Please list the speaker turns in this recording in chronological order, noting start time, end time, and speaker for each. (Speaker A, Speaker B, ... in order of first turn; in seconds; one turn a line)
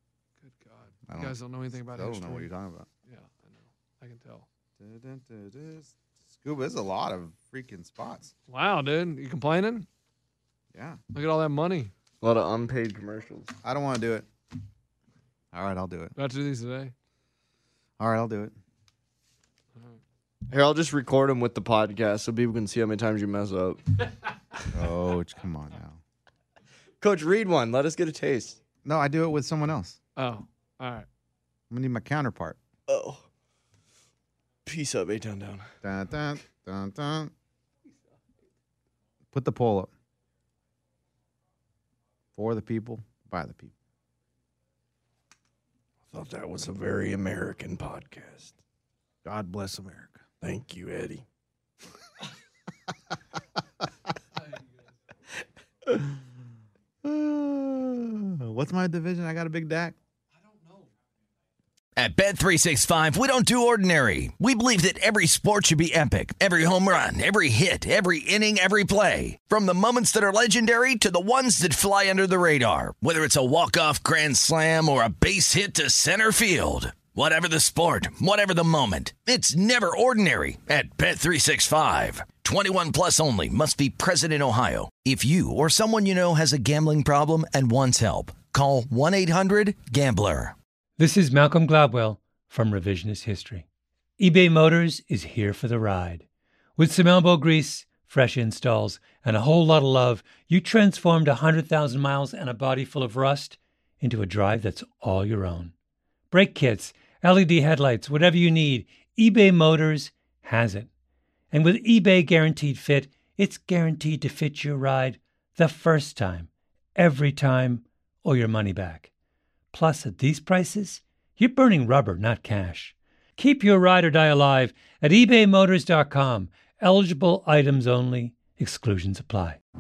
Speaker A: 0.5-2.5
Speaker B: 1.1-1.3
Speaker B: 1.9-2.9
Speaker A: 3.1-4.5
Speaker B: 4.8-8.3
Speaker A: 8.5-9.9
Speaker A: 11.1-11.9
Speaker C: 12.2-13.5
Speaker B: 13.6-14.3
Speaker B: 15.5-16.1
Speaker A: 16.2-16.9
Speaker B: 18.0-18.5
Speaker C: 20.5-23.8
Speaker B: 24.7-26.0
Speaker C: 27.0-28.6
Speaker B: 28.9-30.0
Speaker A: 30.2-31.1
Speaker B: 31.7-32.6
Speaker C: 32.9-33.2
Speaker C: 34.6-35.6
Speaker B: 35.8-37.3
Speaker B: 39.3-39.9
Speaker B: 42.4-43.7
Speaker C: 46.1-48.6
Speaker B: 49.2-50.2
Speaker C: 50.4-51.2
Speaker B: 57.0-60.0
Speaker D: 62.0-90.5
Speaker E: 91.0-93.7
Speaker E: 94.2-96.2
Speaker E: 96.8-105.7
Speaker E: 106.3-110.9
Speaker E: 111.5-119.1
Speaker E: 119.7-129.6